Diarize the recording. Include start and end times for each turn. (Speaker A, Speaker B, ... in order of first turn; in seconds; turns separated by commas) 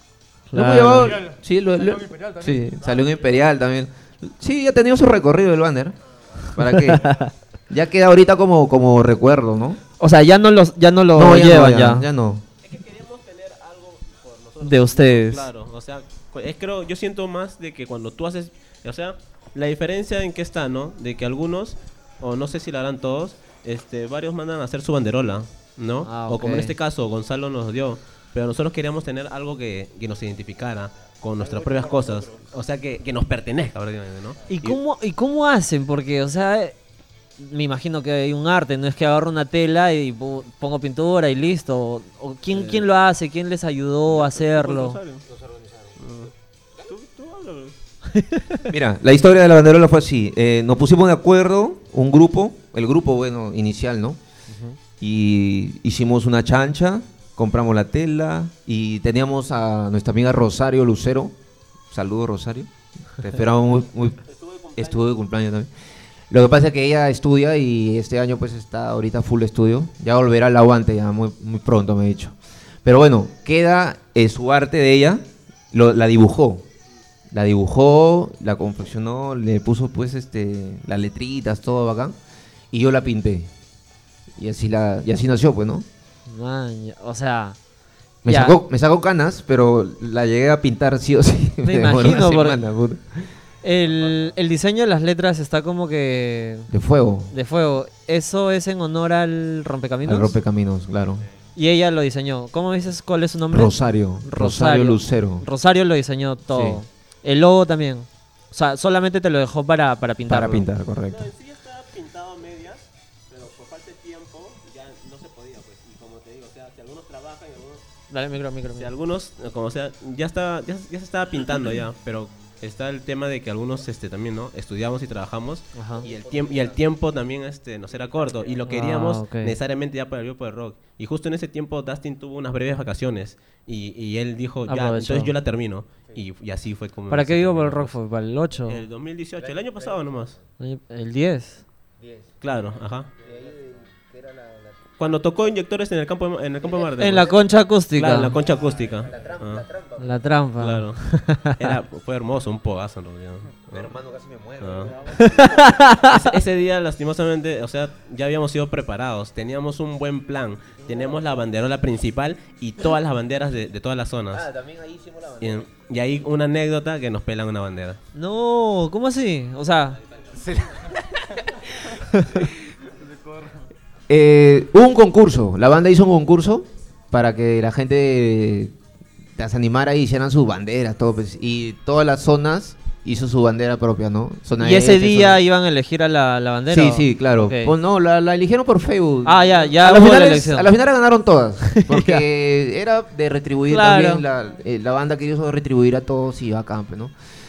Speaker A: 0.5-1.2, Speaker B: 0.5-7.2, Speaker A: 6.6-7.3, Speaker B: 7.7-9.8, Speaker A: 10.0-12.1, Speaker B: 11.1-12.4, Speaker C: 12.6-34.8, Speaker A: 14.6-15.4, Speaker A: 26.0-26.7, Speaker A: 34.5-36.8, Speaker A: 37.4-45.0, Speaker C: 42.5-42.9, Speaker C: 44.1-45.2, Speaker B: 45.5-45.9, Speaker C: 46.0-47.8, Speaker A: 48.1-48.7, Speaker B: 48.7-54.2, Speaker A: 54.5-54.8, Speaker B: 55.0-61.3, Speaker B: 61.9-64.2, Speaker C: 64.3-64.9, Speaker B: 64.7-65.7, Speaker B: 66.3-76.6, Speaker B: 77.3-82.1, Speaker B: 82.7-83.5, Speaker B: 84.3-85.8, Speaker A: 86.3-87.6, Speaker B: 88.2-93.3, Speaker A: 88.2-88.6, Speaker A: 91.6-92.6, Speaker A: 93.6-96.7, Speaker B: 96.7-97.3, Speaker A: 97.3-100.3, Speaker B: 100.0-101.3, Speaker A: 101.5-110.7, Speaker B: 103.5-105.4, Speaker B: 106.5-106.8, Speaker B: 110.3-111.3, Speaker C: 111.1-117.8, Speaker A: 118.1-118.9, Speaker C: 118.8-137.9, Speaker A: 125.7-126.0, Speaker A: 128.7-129.5, Speaker A: 134.7-135.3, Speaker A: 137.1-138.8, Speaker C: 138.7-140.4, Speaker A: 140.6-141.6, Speaker C: 142.4-143.1, Speaker B: 143.2-144.8, Speaker C: 145.0-147.4, Speaker A: 147.0-148.3, Speaker C: 147.9-149.7, Speaker B: 149.2-150.0, Speaker A: 150.0-151.7, Speaker C: 150.6-153.9, Speaker B: 153.7-155.4, Speaker C: 154.6-154.9, Speaker A: 155.1-156.3, Speaker C: 156.0-164.5, Speaker B: 164.3-165.6, Speaker C: 165.4-168.0, Speaker A: 168.1-170.0, Speaker B: 170.3-172.5, Speaker B: 174.1-178.7, Speaker B: 179.4-185.4, Speaker A: 184.6-187.7, Speaker B: 186.7-197.1, Speaker A: 189.2-190.7, Speaker A: 191.7-192.2, Speaker A: 193.7-194.2